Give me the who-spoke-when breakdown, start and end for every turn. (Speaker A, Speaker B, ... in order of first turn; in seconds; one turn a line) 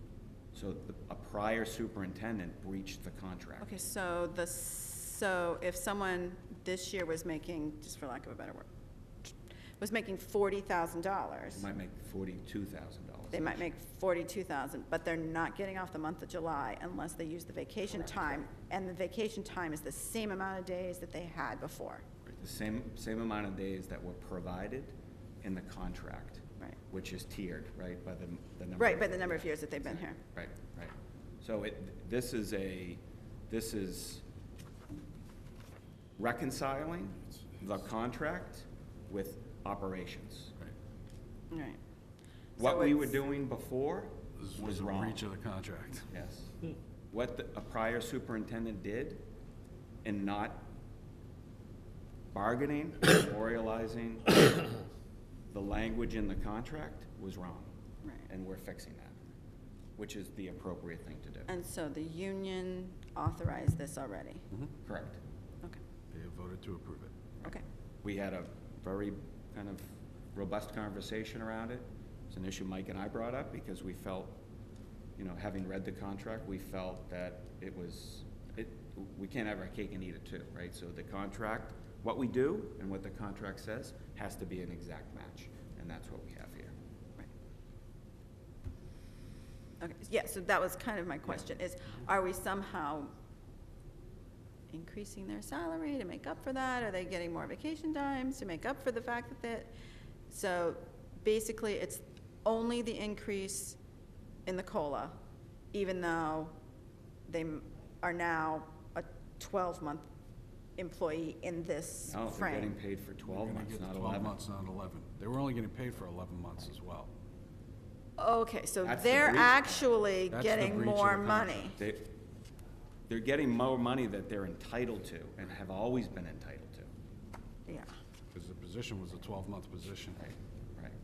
Speaker A: 0.5-3.9
Speaker B: 3.6-8.7
Speaker B: 9.8-11.7
Speaker A: 11.5-13.7
Speaker B: 13.3-22.1
Speaker A: 17.9-18.5
Speaker A: 22.3-34.2
Speaker B: 28.8-30.2
Speaker A: 36.2-40.5
Speaker B: 41.5-41.8
Speaker B: 42.6-43.2
Speaker A: 42.6-45.2
Speaker C: 44.4-46.1
Speaker A: 46.1-46.6
Speaker A: 47.1-49.2
Speaker A: 50.0-50.7
Speaker A: 52.3-54.5
Speaker A: 55.5-57.7
Speaker A: 58.3-59.3
Speaker A: 60.0-61.5
Speaker B: 61.5-64.5
Speaker A: 64.8-65.2
Speaker C: 66.1-67.1
Speaker A: 67.4-74.4
Speaker A: 75.2-86.8
Speaker B: 89.8-93.1
Speaker B: 94.7-99.7
Speaker B: 100.3-103.8
Speaker B: 104.5-105.2
Speaker B: 105.7-106.5
Speaker B: 107.3-110.1
Speaker B: 110.8-112.7
Speaker A: 112.1-114.4
Speaker C: 113.3-117.1
Speaker B: 118.2-121.8
Speaker A: 118.8-120.0
Speaker C: 120.3-121.8
Speaker A: 121.8-122.1
Speaker A: 123.1-126.9
Speaker C: 128.3-130.2
Speaker A: 130.2-131.0